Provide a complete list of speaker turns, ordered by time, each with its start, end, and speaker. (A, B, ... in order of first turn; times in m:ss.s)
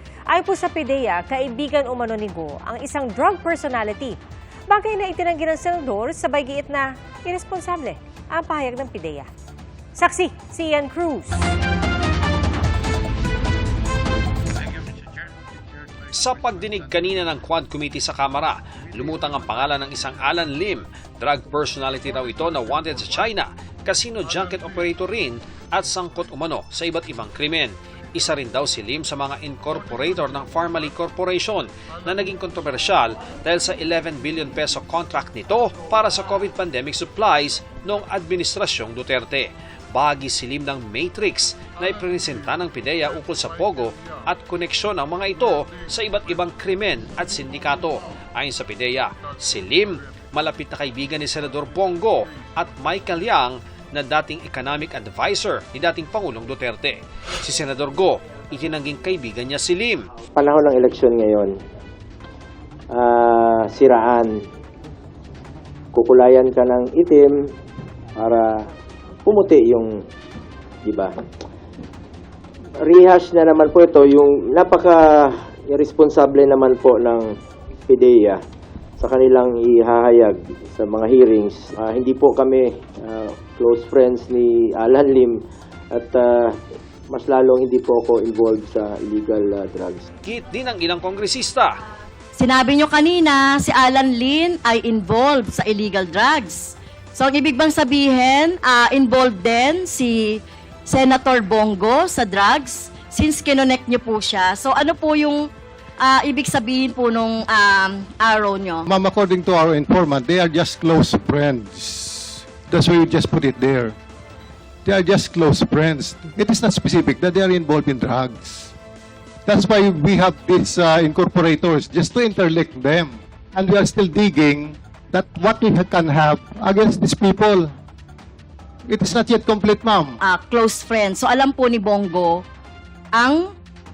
0:00.3-0:04.2 A
0:04.7-0:09.3 A
0:10.0-0:11.4 A
0:16.1-1:00.0 B
1:00.3-1:01.6 C
1:02.9-1:04.4 C
1:05.9-1:07.5 C
1:08.1-1:08.7 C
1:09.2-1:10.0 C
1:10.8-1:11.2 C
1:12.8-1:17.4 C
1:17.9-1:18.4 C
1:19.0-1:26.6 C
1:27.1-1:30.1 C
1:30.2-1:31.7 B
1:32.4-1:45.5 D
1:46.0-1:48.8 D
1:48.9-1:54.0 E
1:54.8-1:58.7 E
1:59.4-2:07.7 E
2:08.9-2:10.2 E
2:10.2-2:12.4 D
2:13.2-2:13.5 D